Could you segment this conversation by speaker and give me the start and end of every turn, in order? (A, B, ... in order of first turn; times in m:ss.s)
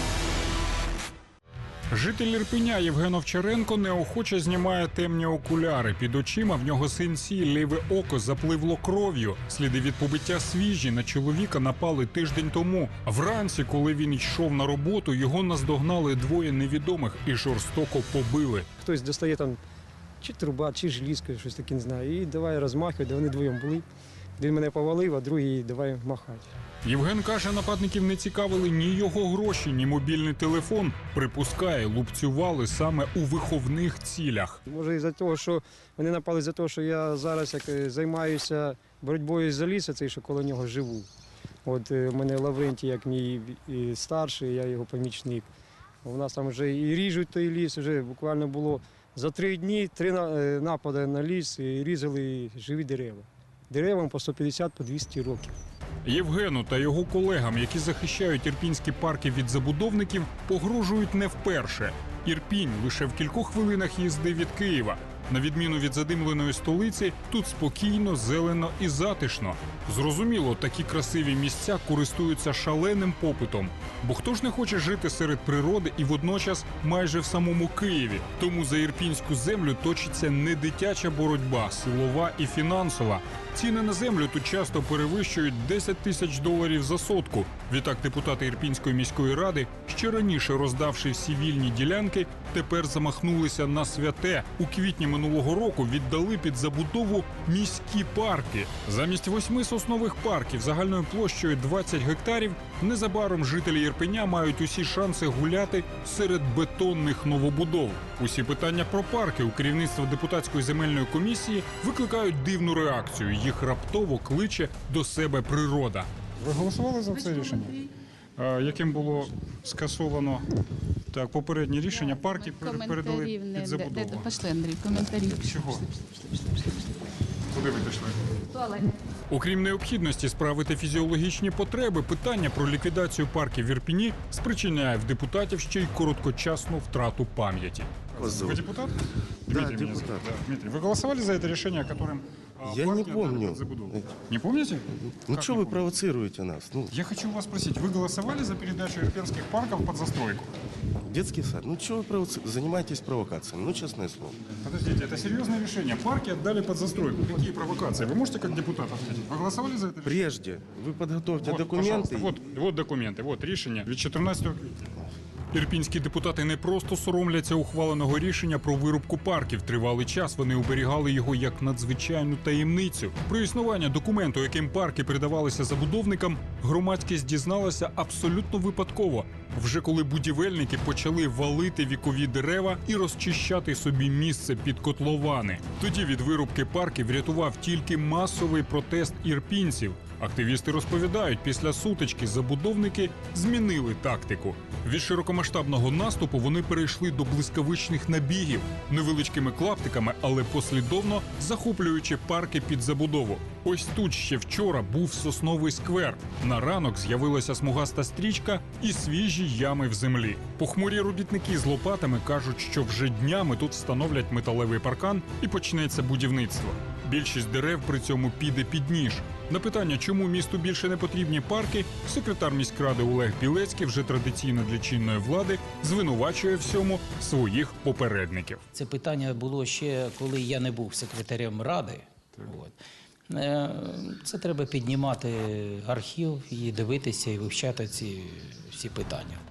0:01.9-0:18.7 A
0:18.8-0:19.6 B
0:20.2-0:23.8 B
0:24.4-0:26.5 B
0:26.8-0:34.6 A
0:34.7-0:41.1 B
0:41.6-0:45.5 B
0:46.0-0:55.5 B
0:56.0-2:00.4 A
2:01.1-2:04.4 A
2:02.5-2:05.6 C
2:05.4-2:05.8 A
2:07.5-2:08.2 A
2:09.3-2:19.0 A
2:18.2-2:18.6 D
2:19.5-2:25.9 A
2:19.5-2:20.3 D
2:22.6-2:24.1 D
2:25.1-2:26.9 D
2:26.9-2:30.5 A
2:31.0-2:34.4 D
2:34.6-2:40.3 A
2:40.0-2:42.4 D
2:41.4-2:44.9 A
2:45.5-3:48.6 A
3:48.7-3:52.7 E
3:53.3-3:59.4 E